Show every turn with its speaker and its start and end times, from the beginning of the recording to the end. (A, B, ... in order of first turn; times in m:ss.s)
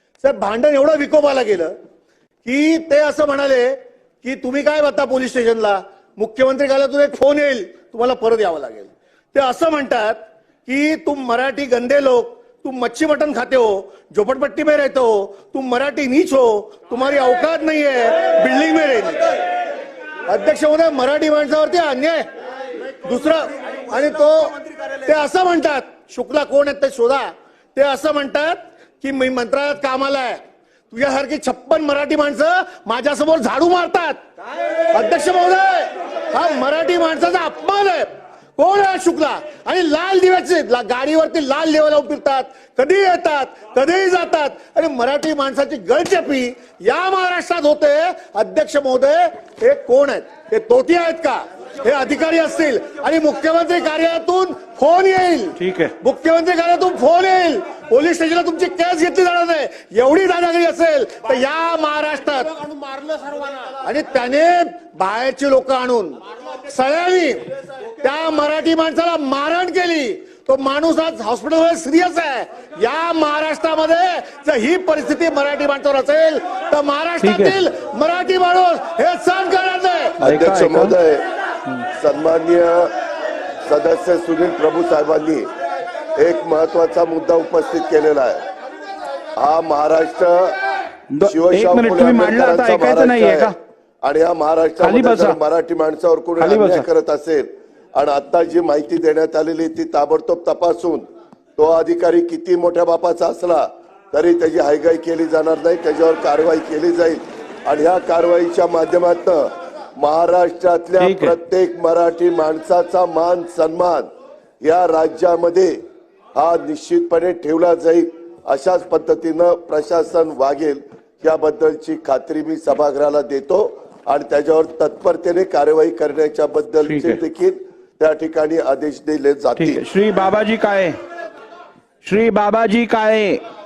0:00.2-0:01.7 A
0:02.4-0:19.4 A
0:20.3-0:22.2 A
0:23.0-0:30.4 A
0:30.9-0:34.2 A
0:34.9-1:02.6 A
0:55.6-0:55.9 B
1:03.6-1:07.4 A
1:08.0-1:20.2 A
1:17.2-1:17.6 B
1:20.2-1:21.2 C
1:20.2-1:20.9 B
1:21.9-1:22.9 C
1:23.6-1:25.5 C
1:26.2-1:28.4 C
1:29.4-1:30.6 C
1:31.1-1:33.5 B
1:31.2-1:41.0 C
1:34.8-1:35.4 B
1:36.4-1:36.8 B
1:41.6-1:54.1 C
1:51.0-1:51.3 B
1:54.6-1:55.7 C
1:56.4-2:09.8 C
2:06.8-2:07.2 B
2:09.6-2:11.0 B
2:12.0-2:13.4 B